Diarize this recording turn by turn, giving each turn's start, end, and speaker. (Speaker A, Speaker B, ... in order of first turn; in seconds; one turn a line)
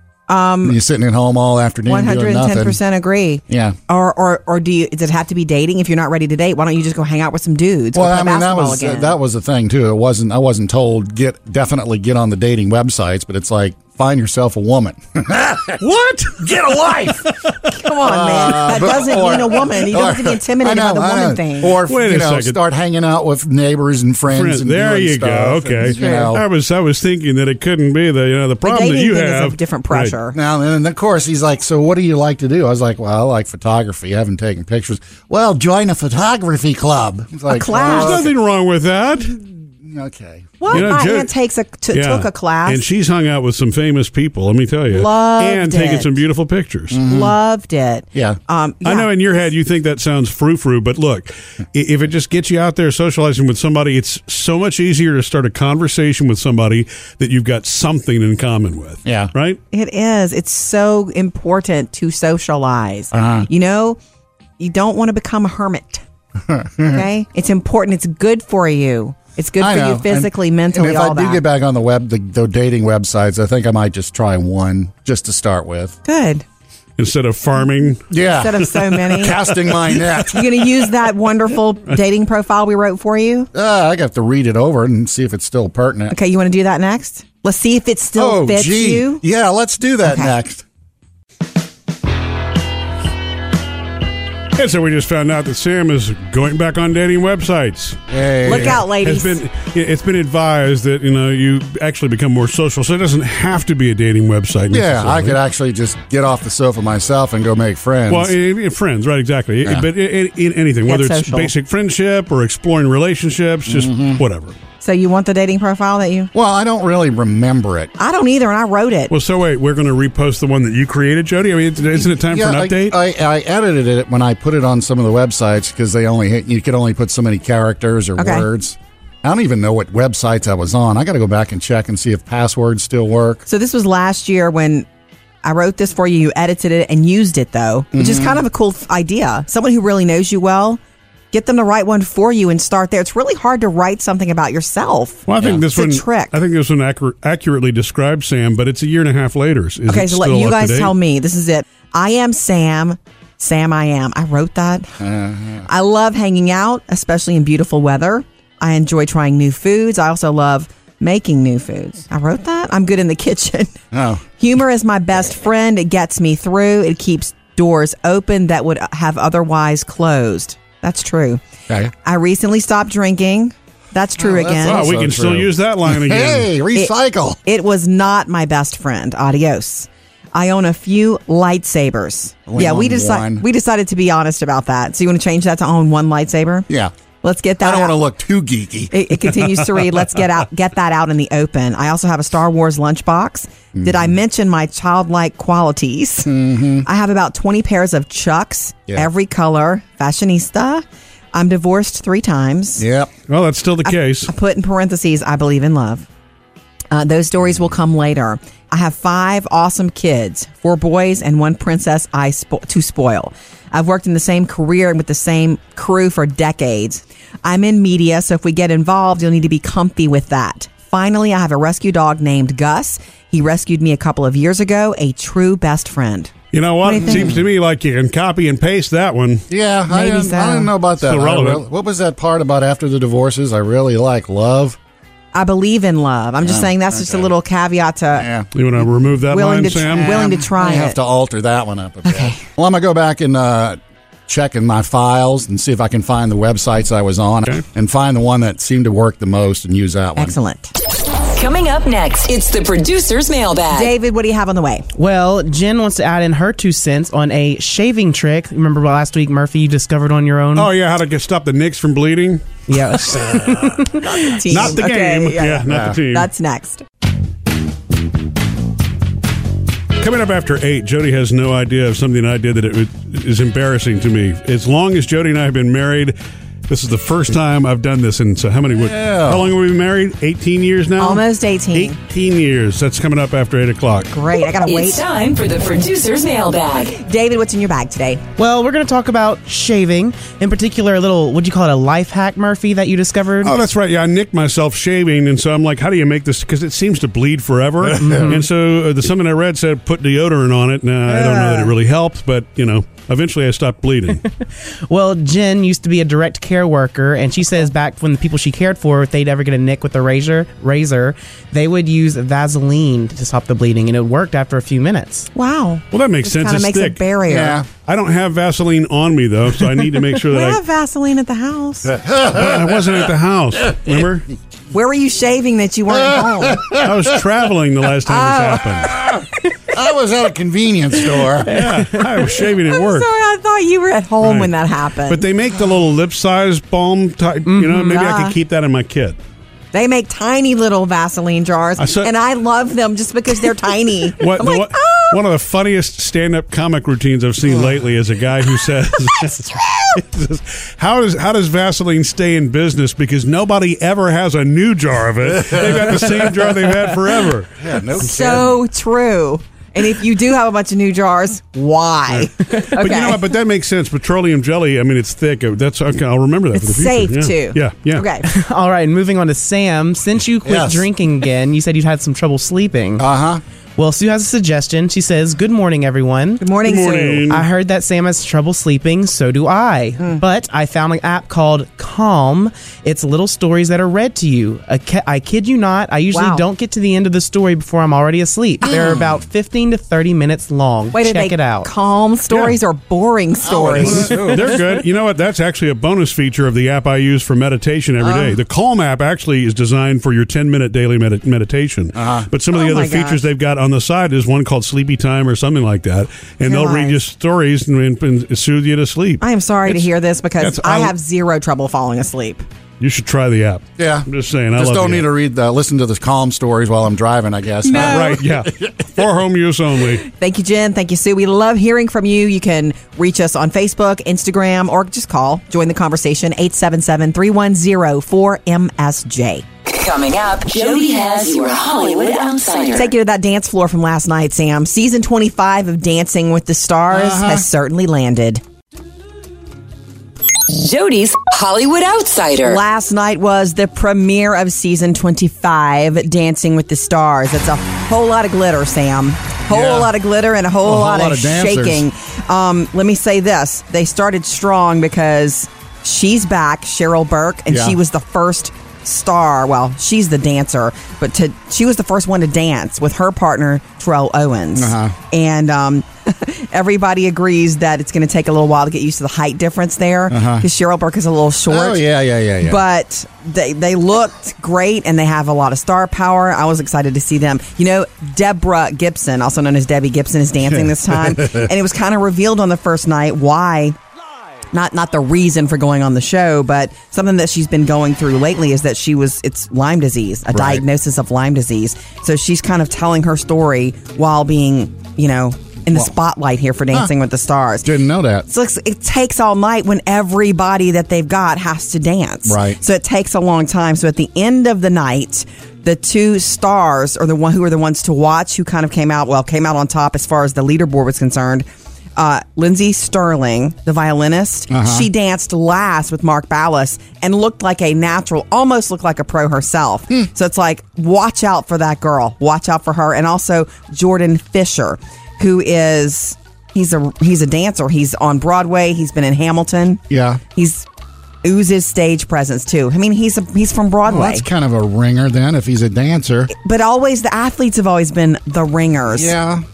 Speaker A: 0.3-0.8
Speaker B: 0.6-2.8
Speaker A: 1.9-9.1
Speaker B: 3.5-3.8
Speaker B: 7.9-15.8
Speaker C: 15.8-16.5
Speaker B: 16.4-26.4
Speaker A: 17.8-21.7
Speaker C: 21.9-22.6
Speaker C: 24.3-30.1
Speaker A: 25.9-26.3
Speaker A: 28.6-30.4
Speaker B: 30.3-38.3
Speaker A: 37.5-38.2
Speaker C: 37.8-39.4
Speaker B: 39.8-40.9
Speaker A: 40.6-42.8
Speaker C: 40.7-41.3
Speaker C: 41.9-47.0
Speaker A: 44.9-46.1
Speaker B: 46.9-47.3
Speaker A: 47.0-49.1
Speaker C: 48.8-59.6
Speaker B: 59.0-59.3
Speaker A: 59.7-64.0
Speaker B: 63.1-63.5
Speaker A: 64.6-66.0
Speaker B: 66.5-67.0
Speaker A: 66.8-71.4
Speaker B: 69.6-76.0
Speaker A: 76.0-76.4
Speaker C: 77.0-78.0
Speaker B: 78.1-80.7
Speaker A: 78.3-79.4
Speaker A: 80.3-83.5
Speaker B: 83.5-86.1
Speaker A: 86.1-89.2
Speaker B: 88.2-90.6
Speaker A: 90.0-90.3
Speaker C: 94.5-105.4
Speaker B: 98.1-98.8
Speaker A: 98.4-99.4
Speaker B: 104.7-108.3
Speaker C: 108.1-114.5
Speaker A: 110.8-111.5
Speaker B: 113.7-114.2
Speaker A: 114.8-116.3
Speaker B: 116.3-117.9
Speaker A: 118.0-119.1
Speaker C: 119.1-123.0
Speaker B: 122.2-133.4
Speaker A: 128.2-128.5
Speaker A: 133.5-134.9
Speaker A: 135.4-140.8
Speaker B: 137.9-138.4
Speaker A: 141.3-146.3
Speaker C: 145.3-150.9
Speaker A: 149.9-155.0
Speaker B: 155.0-155.7
Speaker A: 155.6-163.8
Speaker B: 163.9-164.2
Speaker A: 164.4-171.4
Speaker A: 172.0-174.8
Speaker B: 174.2-177.4
Speaker C: 174.6-176.5
Speaker A: 176.7-186.7
Speaker B: 182.5-183.4
Speaker A: 187.2-187.9
Speaker B: 187.6-188.9
Speaker A: 188.9-202.8
Speaker B: 193.7-194.1
Speaker B: 196.2-196.8
Speaker B: 202.8-203.1
Speaker C: 203.3-204.3
Speaker A: 203.8-206.1
Speaker A: 206.9-226.3
Speaker C: 226.5-229.4
Speaker A: 226.8-227.3
Speaker B: 227.0-227.4
Speaker B: 229.5-234.8
Speaker A: 229.9-230.7
Speaker C: 231.0-231.6
Speaker A: 235.3-238.2
Speaker B: 236.4-237.3
Speaker B: 238.1-238.5
Speaker C: 238.5-240.3
Speaker A: 239.3-241.0
Speaker B: 239.9-250.3
Speaker A: 242.1-242.4
Speaker A: 250.2-250.7
Speaker D: 251.3-253.9
Speaker A: 253.7-254.8
Speaker E: 254.9-260.7
Speaker C: 260.5-263.3
Speaker E: 262.7-264.3
Speaker A: 264.2-266.8
Speaker C: 264.5-266.3
Speaker B: 265.7-266.0
Speaker C: 270.0-276.1
Speaker C: 276.7-284.1
Speaker B: 278.7-279.5
Speaker A: 281.0-282.0
Speaker A: 284.1-285.0
Speaker D: 284.6-287.0
Speaker A: 286.9-288.2
Speaker E: 288.4-293.6
Speaker C: 293.4-304.2
Speaker B: 297.8-298.4
Speaker E: 297.9-298.4
Speaker E: 301.1-301.7
Speaker E: 304.9-315.3
Speaker A: 315.3-317.6
Speaker C: 315.9-317.0
Speaker B: 317.3-317.7
Speaker C: 317.8-320.6
Speaker A: 320.3-321.9
Speaker B: 321.9-322.9
Speaker C: 322.3-324.3
Speaker A: 324.7-326.7
Speaker B: 325.9-327.2
Speaker C: 326.8-329.0
Speaker A: 328.1-328.6
Speaker B: 328.8-331.5
Speaker E: 331.4-332.4
Speaker C: 331.5-333.1
Speaker A: 332.6-335.2
Speaker C: 334.2-334.5
Speaker C: 335.1-339.2
Speaker E: 337.4-338.0
Speaker A: 337.9-338.3
Speaker A: 339.7-345.2
Speaker C: 341.8-342.1
Speaker C: 344.2-357.5
Speaker B: 355.3-356.3
Speaker B: 357.6-358.6
Speaker A: 358.0-363.2
Speaker C: 362.1-368.1
Speaker A: 366.5-368.3
Speaker E: 368.2-373.0
Speaker B: 370.4-370.9
Speaker B: 373.0-373.4
Speaker E: 373.8-376.4
Speaker A: 376.4-377.3
Speaker C: 376.6-377.5
Speaker E: 377.3-391.7
Speaker A: 386.1-386.4
Speaker B: 388.6-389.1
Speaker A: 390.9-394.2
Speaker C: 392.3-392.6
Speaker B: 393.4-394.6
Speaker C: 393.8-409.9
Speaker B: 401.9-402.3
Speaker A: 402.5-403.2
Speaker A: 406.4-407.0
Speaker A: 409.2-412.4
Speaker C: 410.4-410.9
Speaker C: 412.8-415.1
Speaker B: 413.8-418.7
Speaker A: 417.6-418.2
Speaker C: 417.7-420.1
Speaker A: 420.1-429.4
Speaker D: 429.6-432.9
Speaker A: 432.7-438.4
Speaker B: 436.9-437.4
Speaker D: 440.5-442.6
Speaker A: 442.4-471.8
Speaker B: 449.5-449.9
Speaker B: 450.6-451.9
Speaker B: 457.5-457.8
Speaker B: 464.6-464.9
Speaker B: 470.1-470.4
Speaker B: 471.5-472.6
Speaker A: 472.4-483.8
Speaker B: 480.5-481.5
Speaker A: 484.5-497.7
Speaker B: 490.3-490.6
Speaker B: 497.6-498.3
Speaker A: 498.3-529.8
Speaker B: 502.2-502.6
Speaker B: 514.5-514.9
Speaker B: 529.9-530.2
Speaker A: 530.3-530.6
Speaker A: 531.2-534.3
Speaker B: 533.9-536.3
Speaker A: 536.3-539.1
Speaker B: 538.9-539.4